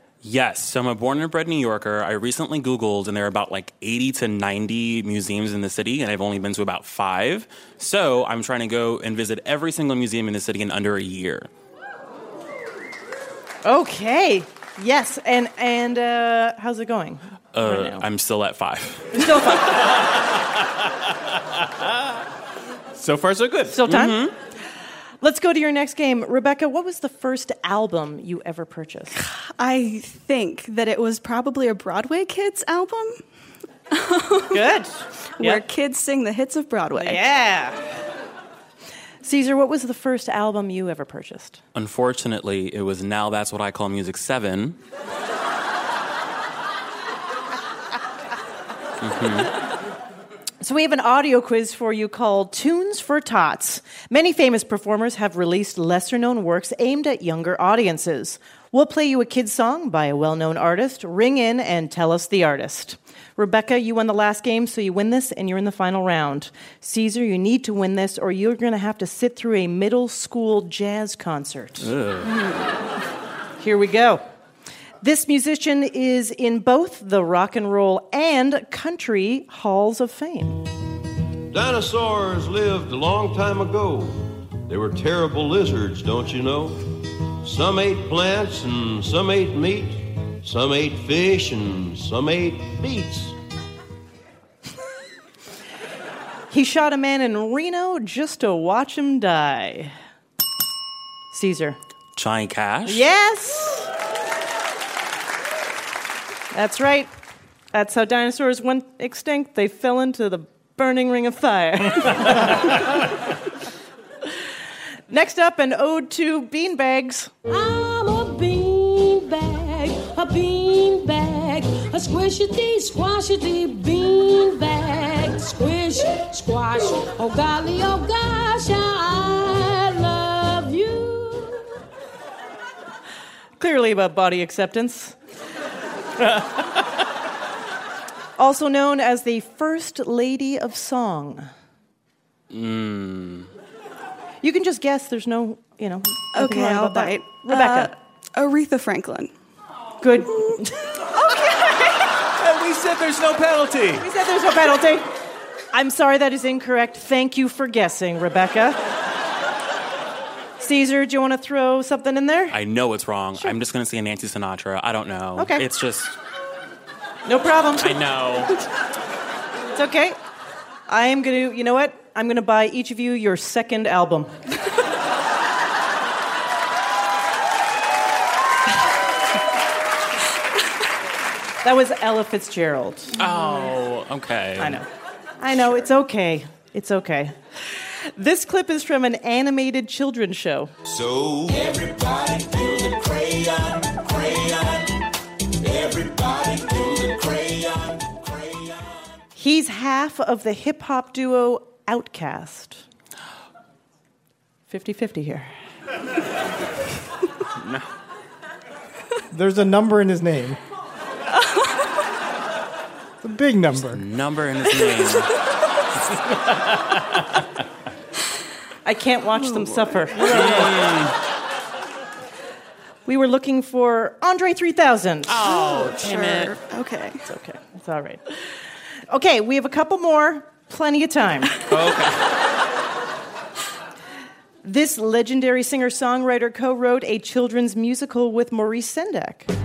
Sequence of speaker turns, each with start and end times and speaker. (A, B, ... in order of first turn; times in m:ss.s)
0:00.2-0:11.5 A
0:13.6-0:18.0 B
0:17.5-0:19.2 A
0:19.2-0:19.8 B
0:23.0-0:23.8 C
0:23.7-0:24.3 B
0:23.9-0:24.3 A
0:25.2-0:29.2 B
0:29.4-0:33.2 D
0:33.9-0:34.7 D
0:34.5-0:35.6 B
0:35.4-0:37.2 D
0:37.0-0:37.8 B
0:39.2-0:41.6 B
0:41.7-0:44.8 A
0:49.0-0:49.5 A
0:50.6-1:11.9 B
1:11.8-1:12.3 A
1:13.6-1:14.2 B
1:15.0-1:20.6 B
1:21.5-1:26.8 E
1:27.4-1:33.4 E
1:36.5-1:39.9 B
1:41.3-1:41.8 B
1:42.2-1:43.0 A
1:42.8-1:43.9 B
1:46.5-1:47.1 B
1:47.7-1:53.0 B
1:55.1-1:57.3 B
1:57.5-2:11.6 F
2:13.6-2:15.2 B
2:18.4-2:21.5 B
2:22.5-2:23.5 A
2:24.4-2:27.9 B
2:26.3-2:29.3 D
2:30.0-2:31.7 B
2:32.4-2:34.1 C
2:34.0-2:35.1 B
2:35.7-2:38.8 B
2:40.6-2:42.6 B
2:42.5-2:46.2 A
2:45.4-2:45.6 B
2:47.2-2:47.9 B
2:47.8-2:48.6 A
2:49.7-2:50.2 B
2:50.9-2:54.3 B
3:01.6-3:03.1 B
3:03.1-3:04.8 A
3:04.6-3:04.8 B
3:05.4-3:10.7 B
3:10.9-3:14.9 G
3:15.6-3:18.6 G
3:19.4-3:22.8 B
3:24.7-3:25.5 B
3:27.6-3:27.9 A
3:29.3-3:30.6 H
3:33.2-3:34.0 H
3:33.9-3:35.3 A
3:38.8-3:40.9 B
3:40.2-3:41.1 A
3:43.0-3:45.4 B
3:45.3-3:47.3 D
3:45.4-3:46.5 A
3:47.2-3:48.2 B
3:49.1-3:51.6 B
3:51.7-3:52.2 A
3:54.6-3:59.5 B